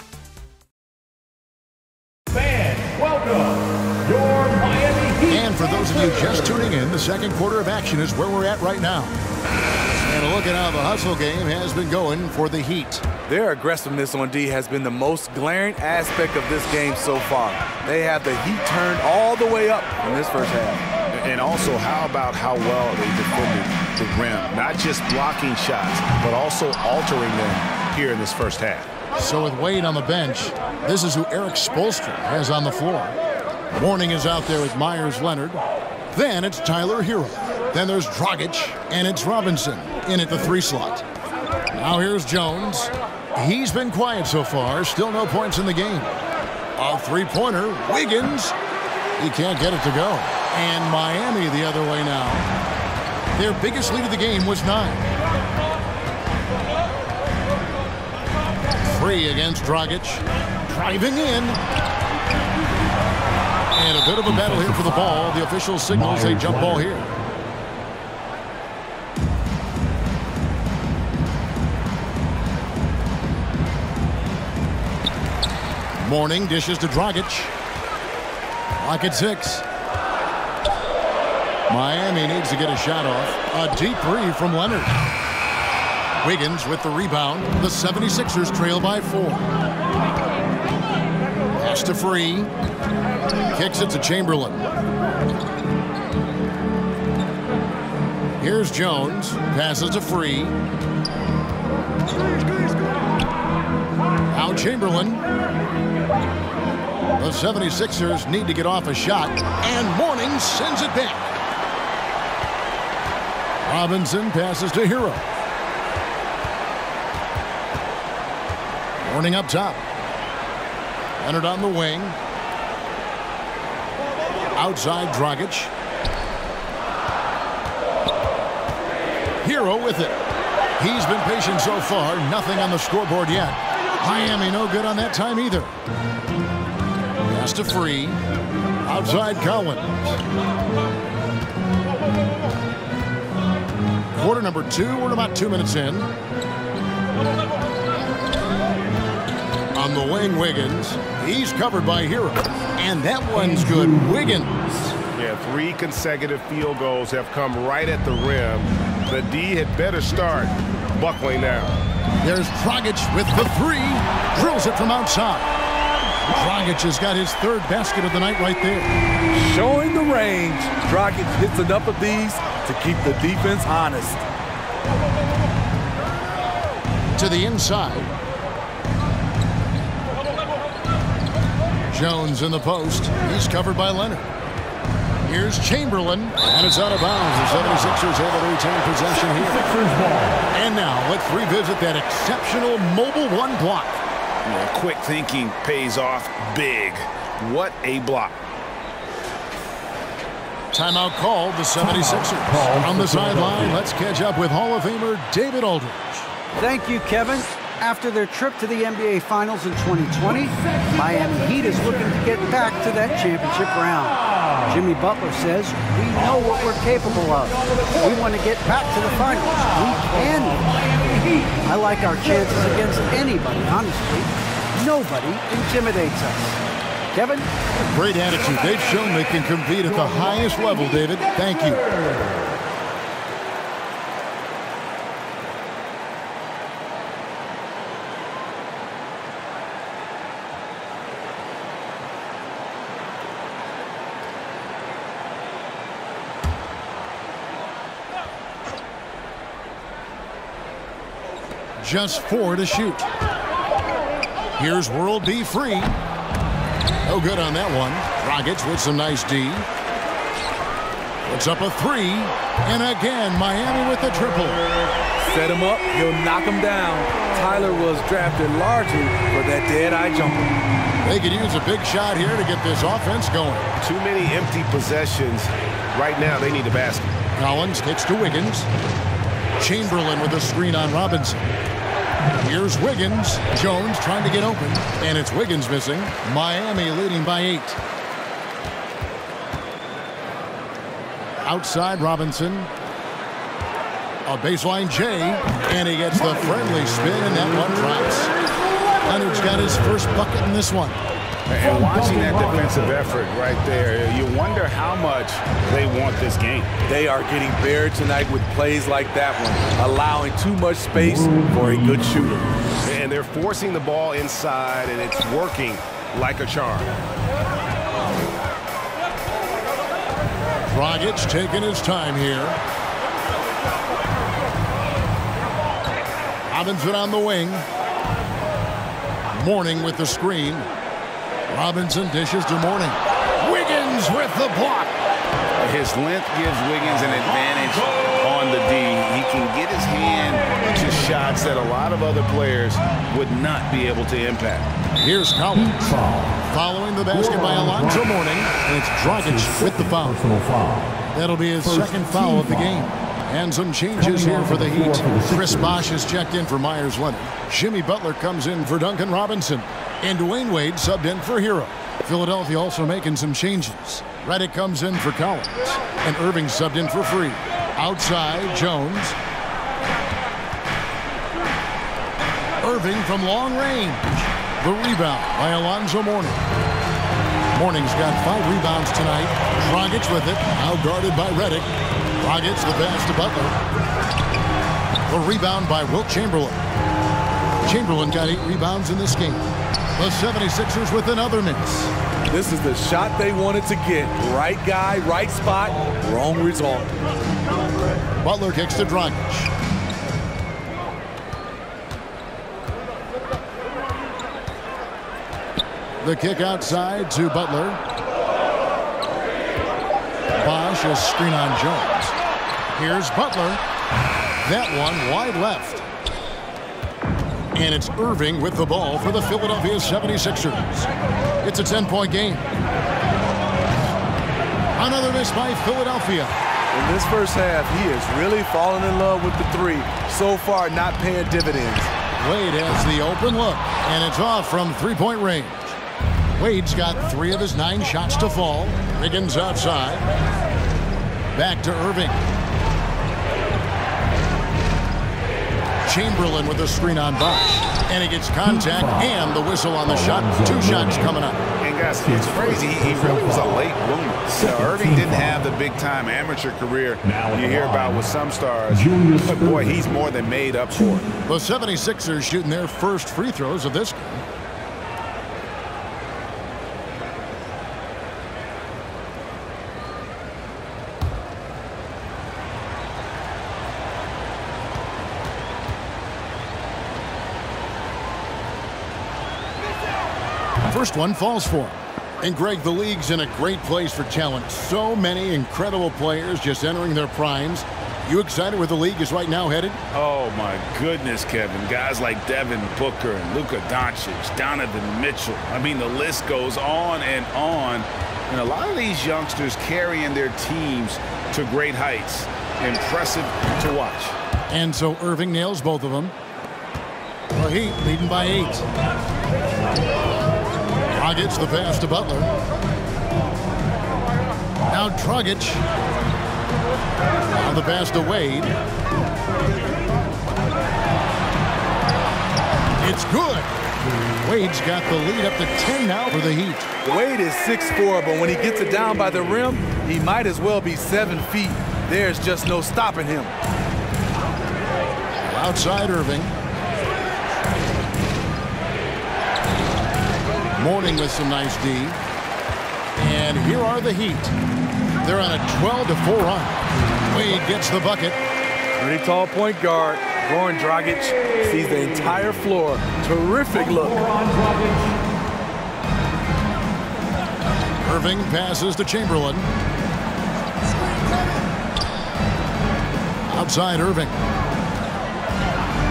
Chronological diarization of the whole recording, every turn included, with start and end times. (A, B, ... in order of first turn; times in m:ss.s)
0:02.3-0:06.5 A
0:05.3-0:09.2 B
0:10.0-0:13.0 B
0:13.3-0:20.8 C
0:21.1-0:28.9 D
0:29.2-0:33.2 B
0:33.8-0:41.1 B
0:41.7-0:46.2 B
0:46.8-0:48.6 B
0:49.2-0:52.5 B
0:53.4-0:55.0 B
0:58.8-1:01.6 B
1:03.8-1:07.1 B
1:04.3-1:05.2 A
1:05.9-1:06.9 A
1:16.0-1:17.5 B
1:18.8-1:19.6 B
1:21.7-1:25.0 B
1:26.2-1:29.5 B
1:31.6-1:32.5 B
1:33.5-1:34.7 B
1:38.4-1:40.6 B
1:44.3-1:45.2 B
1:47.2-1:51.3 B
1:53.6-1:55.2 B
1:59.0-1:59.8 B
2:01.2-2:02.2 B
2:04.6-2:05.7 B
2:09.4-2:10.2 B
2:10.8-2:15.7 B
2:17.3-2:18.2 B
2:18.8-2:20.2 B
2:24.1-2:26.1 B
2:29.7-2:34.6 B
2:33.4-2:34.9 A
2:35.1-2:41.8 D
2:42.2-2:45.5 B
2:46.2-2:48.9 B
2:49.3-2:54.2 C
2:57.2-2:58.2 B
3:01.9-3:04.3 B
3:05.2-3:09.7 B
3:09.2-3:10.5 A
3:10.5-3:14.0 B
3:14.4-3:18.4 D
3:20.7-3:26.3 B
3:21.8-3:23.8 A
3:26.6-3:40.7 E
3:30.4-3:32.8 A
3:34.3-3:34.7 A
3:36.2-3:42.7 A
3:41.6-3:46.6 E
3:47.1-3:47.5 E
3:47.9-3:51.9 B
3:50.0-3:52.4 A
4:11.8-4:13.1 B
4:14.6-4:16.0 B
4:17.0-4:19.7 B
4:21.2-4:24.6 B
4:25.2-4:30.5 C
4:31.0-4:33.7 B
4:33.8-4:37.2 D
4:37.4-4:38.7 B
4:39.6-4:41.4 B
4:42.4-4:47.8 B
4:51.4-4:52.7 B
4:54.3-4:58.3 B
4:59.0-5:01.0 B
5:01.5-5:06.7 D
5:01.6-5:03.2 A
5:06.9-5:12.5 C
5:11.0-5:12.0 A
5:12.8-5:16.9 D
5:20.7-5:22.6 B
5:26.5-5:27.7 B
5:29.3-5:30.7 B
5:31.5-5:35.0 B
5:35.6-5:44.7 D
5:45.0-5:50.2 B
5:45.5-5:46.4 A
5:47.0-5:48.1 A
5:49.1-5:51.0 A
5:51.1-6:09.2 B
5:51.6-5:52.7 A
5:54.0-5:55.9 A
6:12.6-6:16.4 B
6:17.5-6:21.7 B
6:22.2-6:23.6 B
6:25.1-6:26.6 B
6:27.6-6:29.5 B
6:30.0-6:31.9 B
6:32.3-6:36.9 C
6:38.2-6:39.5 B
6:46.0-6:47.8 B
6:50.4-6:52.2 B
6:52.7-6:53.6 B
6:54.4-6:55.9 B
6:57.5-7:00.9 B
7:01.4-7:02.5 B
7:04.8-7:06.3 B
7:06.7-7:11.9 C
7:12.2-7:15.8 B
7:16.4-7:20.1 B
7:21.4-7:22.2 B
7:25.8-7:31.4 B
7:28.5-7:29.2 A
7:29.8-7:31.2 A
7:31.6-7:41.0 D
7:31.9-7:33.6 A
7:34.3-7:35.4 A
7:37.0-7:38.1 A
7:38.7-7:39.9 A
7:41.3-7:44.2 B
8:00.6-8:09.8 B
8:09.9-8:24.2 D
8:24.5-8:26.1 B
8:27.3-8:28.7 B
8:31.0-8:32.3 B
8:34.7-8:35.6 B
8:37.3-8:38.6 B
8:42.8-8:43.5 B
8:44.2-8:46.7 B
8:46.8-8:53.3 C
8:55.2-8:56.4 B
9:00.6-9:02.0 B
9:03.0-9:04.4 B
9:05.0-9:08.2 B
9:08.8-9:14.1 C
9:13.6-9:15.0 A
9:17.8-9:19.5 B
9:23.3-9:24.2 B